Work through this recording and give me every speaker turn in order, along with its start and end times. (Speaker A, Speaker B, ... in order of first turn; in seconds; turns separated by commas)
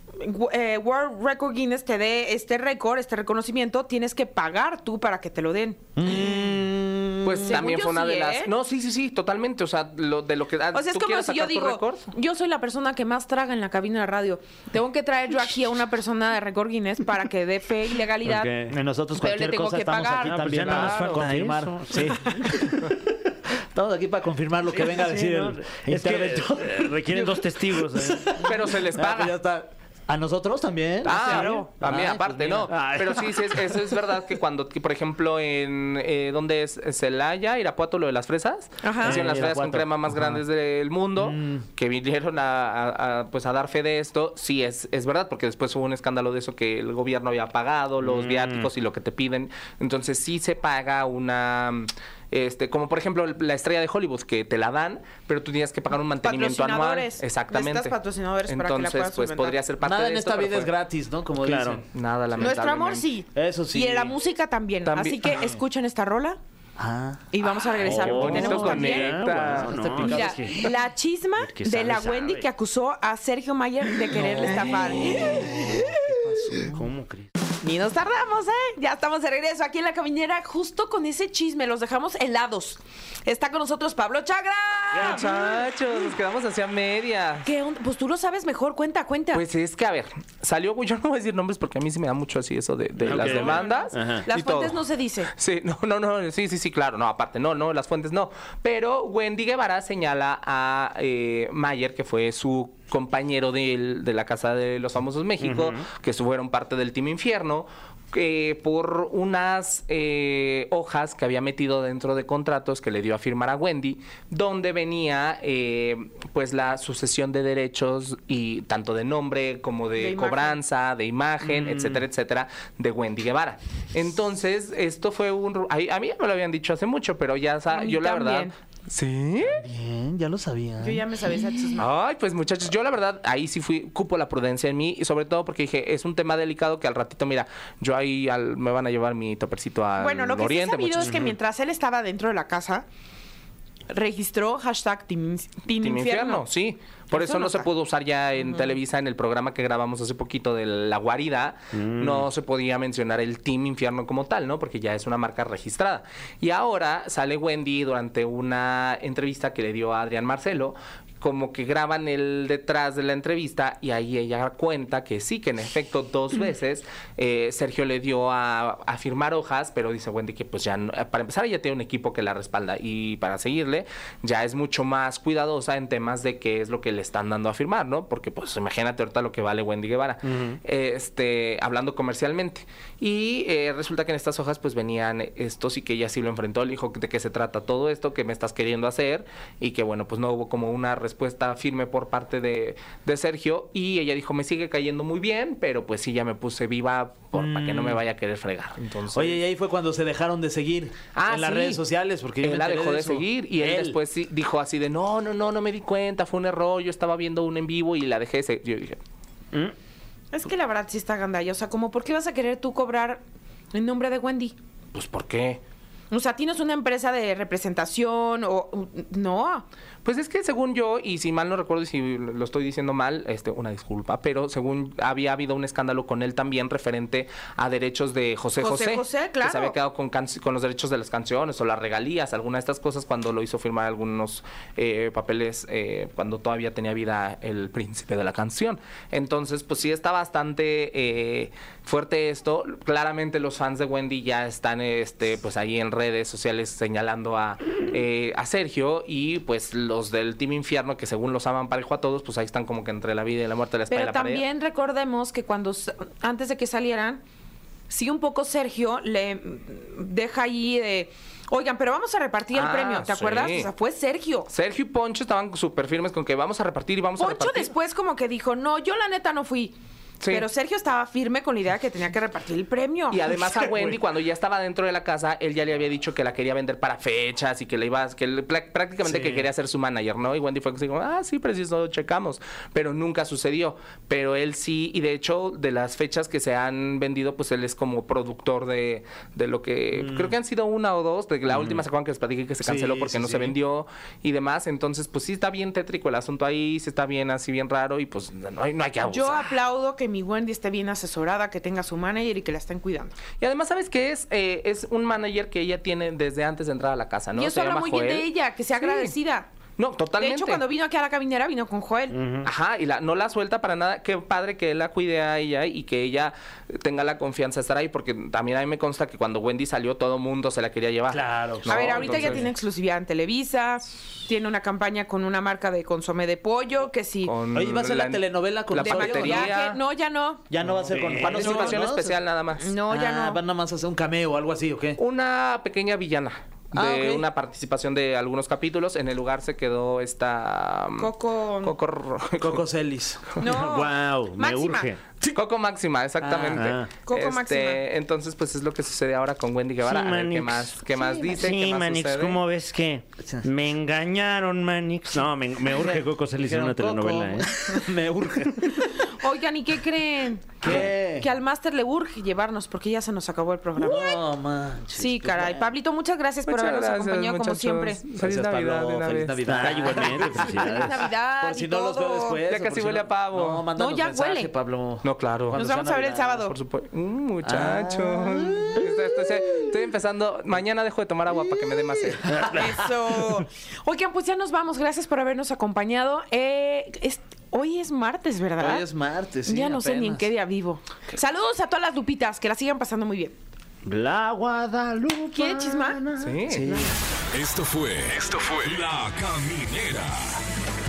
Speaker A: 0.2-6.6, Speaker B: 6.0-7.5, Speaker C: 7.2-12.1, Speaker A: 7.2-8.5, Speaker A: 10.7-18.5, Speaker D: 18.2-18.7, Speaker B: 18.7-23.1, Speaker A: 19.1-20.7, Speaker D: 20.2-22.6, Speaker C: 20.6-21.3, Speaker B: 23.7-33.6, Speaker D: 24.7-28.4, Speaker C: 28.4-29.3, Speaker C: 31.0-57.9, Speaker A: 31.2-31.5, Speaker A: 38.8-39.2, Speaker B: 39.0-40.4, Speaker B: 41.2-41.6, Speaker D: 48.0-48.7, Speaker A: 56.2-59.6, Speaker C: 58.5-60.7, Speaker B: 59.8-61.8, Speaker D: 61.4-61.8, Speaker C: 61.8-63.0, Speaker A: 62.4-66.4, Speaker B: 63.3-64.2, Speaker C: 64.8-65.5, Speaker B: 66.8-67.3, Speaker A: 67.3-69.2, Speaker D: 67.8-70.7, Speaker C: 67.8-70.7, Speaker B: 68.1-70.6, Speaker A: 70.0-76.1, Speaker D: 71.4-72.5, Speaker B: 74.2-76.8, Speaker D: 76.6-77.3, Speaker A: 77.6-85.6, Speaker C: 84.9-87.5, Speaker A: 87.4-89.4, Speaker C: 89.3-94.8, Speaker D: 93.0-94.3, Speaker A: 93.1-95.3, Speaker C: 95.3-129.6, Speaker D: 105.4-105.8, Speaker A: 120.0-120.6, Speaker B: 121.5-122.0, Speaker A: 127.7-128.5, Speaker B: 129.5-131.0, Speaker A: 130.8-131.9, Speaker C: 131.8-141.3, Speaker A: 140.0-142.8, Speaker A: 143.9-146.4, Speaker C: 145.8-199.4, Speaker A: 147.1-147.7, Speaker D: 151.7-152.3, Speaker D: 180.3-180.6, Speaker B: 197.3-198.0, Speaker B: 199.1-204.0, Speaker C: 201.1-201.8, Speaker C: 202.4-209.0, Speaker A: 210.3-213.2, Speaker A: 213.7-214.6, Speaker C: 214.9-215.6, Speaker A: 216.1-219.7, Speaker C: 220.0-254.4, Speaker A: 228.6-229.8, Speaker A: 253.9-257.2, Speaker A: 257.9-264.5, Speaker C: 262.5-263.7, Speaker C: 264.5-267.7, Speaker A: 267.2-269.8, Speaker C: 270.2-270.5, Speaker A: 270.3-273.4, Speaker C: 273.1-299.6, Speaker B: 279.1-279.4, Speaker B: 289.9-290.3, Speaker D: 291.5-291.8, Speaker B: 292.6-293.5, Speaker A: 299.0-303.2, Speaker C: 303.4-308.3, Speaker A: 307.3-309.5, Speaker C: 308.8-309.1, Speaker C: 309.8-310.6, Speaker A: 310.2-312.3, Speaker D: 312.1-312.5, Speaker C: 312.4-322.5, Speaker B: 321.1-322.5, Speaker A: 321.7-327.3, Speaker C: 327.2-329.8, Speaker B: 327.5-329.5, Speaker A: 328.8-330.6, Speaker B: 330.5-332.2, Speaker C: 330.6-332.7, Speaker D: 330.9-331.7, Speaker A: 332.6-333.4, Speaker B: 332.9-335.0, Speaker C: 335.0-342.6, Speaker B: 336.7-337.2, Speaker A: 341.0-341.8, Speaker B: 342.4-343.4, Speaker A: 343.4-344.9, Speaker D: 343.4-345.0, Speaker C: 345.3-352.4, Speaker B: 346.2-346.6, Speaker D: 346.5-346.9, Speaker A: 347.0-347.8, Speaker D: 349.8-357.8, Speaker B: 355.6-359.2, Speaker A: 359.0-364.2, Speaker B: 360.6-361.3, Speaker B: 363.8-365.7, Speaker A: 364.9-368.1, Speaker C: 366.4-370.4, Speaker B: 368.1-370.9, Speaker D: 369.4-371.0, Speaker A: 370.2-372.4, Speaker B: 371.4-376.4, Speaker C: 372.5-373.6, Speaker A: 373.7-374.5, Speaker C: 375.0-375.6, Speaker A: 375.5-376.5, Speaker C: 376.5-382.4, Speaker B: 377.4-377.8, Speaker A: 377.6-378.8, Speaker A: 382.1-388.9, Speaker B: 382.3-382.9, Speaker D: 382.4-382.8, Speaker B: 388.6-390.3, Speaker A: 389.5-393.3, Speaker D: 393.8-396.0, Speaker A: 395.3-396.0, Speaker B: 395.6-396.9, Speaker C: 396.1-396.7, Speaker E: 397.3-400.4